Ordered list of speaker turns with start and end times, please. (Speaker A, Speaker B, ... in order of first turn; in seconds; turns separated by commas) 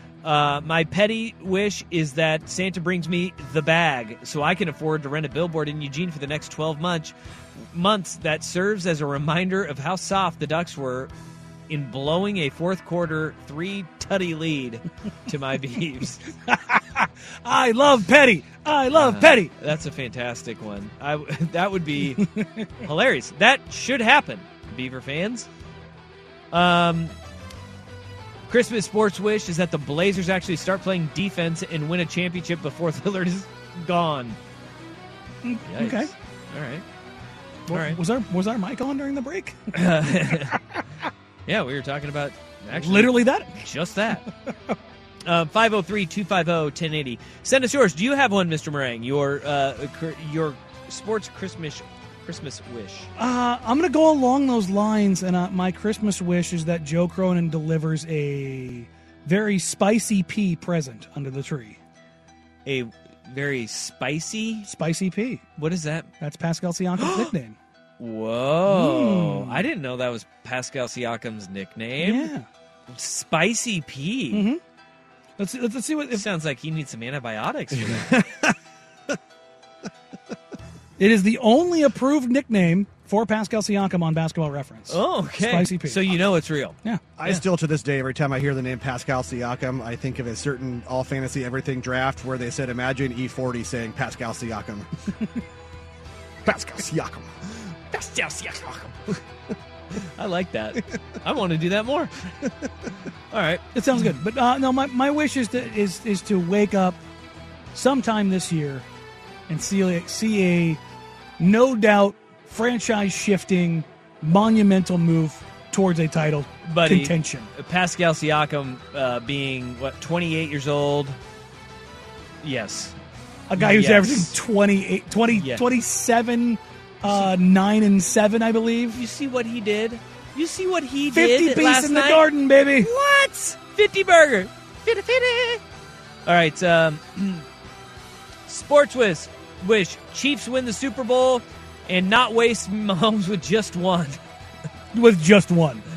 Speaker A: 0.2-11.1, Speaker A: 11.7-16.2, Speaker B: 16.5-19.5, Speaker A: 18.9-22.2, Speaker B: 22.2-22.7, Speaker A: 22.8-25.5, Speaker A: 26.5-27.1, Speaker A: 28.5-34.4, Speaker B: 35.4-36.1, Speaker A: 35.6-36.8, Speaker B: 37.7-40.3, Speaker A: 37.7-38.0, Speaker A: 39.7-40.6, Speaker A: 41.5-44.2, Speaker B: 42.7-43.5, Speaker A: 45.2-53.1, Speaker B: 53.2-61.8, Speaker A: 62.6-64.7, Speaker B: 64.7-65.4, Speaker A: 65.6-66.1, Speaker B: 66.2-67.6, Speaker A: 67.0-67.3, Speaker A: 68.0-72.3, Speaker B: 68.7-69.7, Speaker B: 72.0-72.5, Speaker A: 72.9-74.5, Speaker B: 74.3-74.6, Speaker B: 75.4-76.2, Speaker A: 76.1-78.2, Speaker C: 77.7-78.5, Speaker B: 81.0-86.1, Speaker A: 84.9-87.4, Speaker C: 87.2-94.9, Speaker C: 96.4-97.3, Speaker A: 97.9-99.0, Speaker A: 99.9-102.3, Speaker A: 103.3-103.6, Speaker B: 103.7-107.0, Speaker B: 107.7-108.8, Speaker B: 109.5-110.8, Speaker B: 111.4-117.5, Speaker A: 116.6-121.2, Speaker A: 122.4-123.0, Speaker B: 123.5-129.0, Speaker A: 123.5-124.3, Speaker A: 125.3-125.6, Speaker A: 127.1-127.3, Speaker A: 128.9-132.3, Speaker B: 131.1-132.9, Speaker A: 132.8-135.6, Speaker A: 136.2-137.4, Speaker A: 138.5-144.2, Speaker B: 144.9-145.8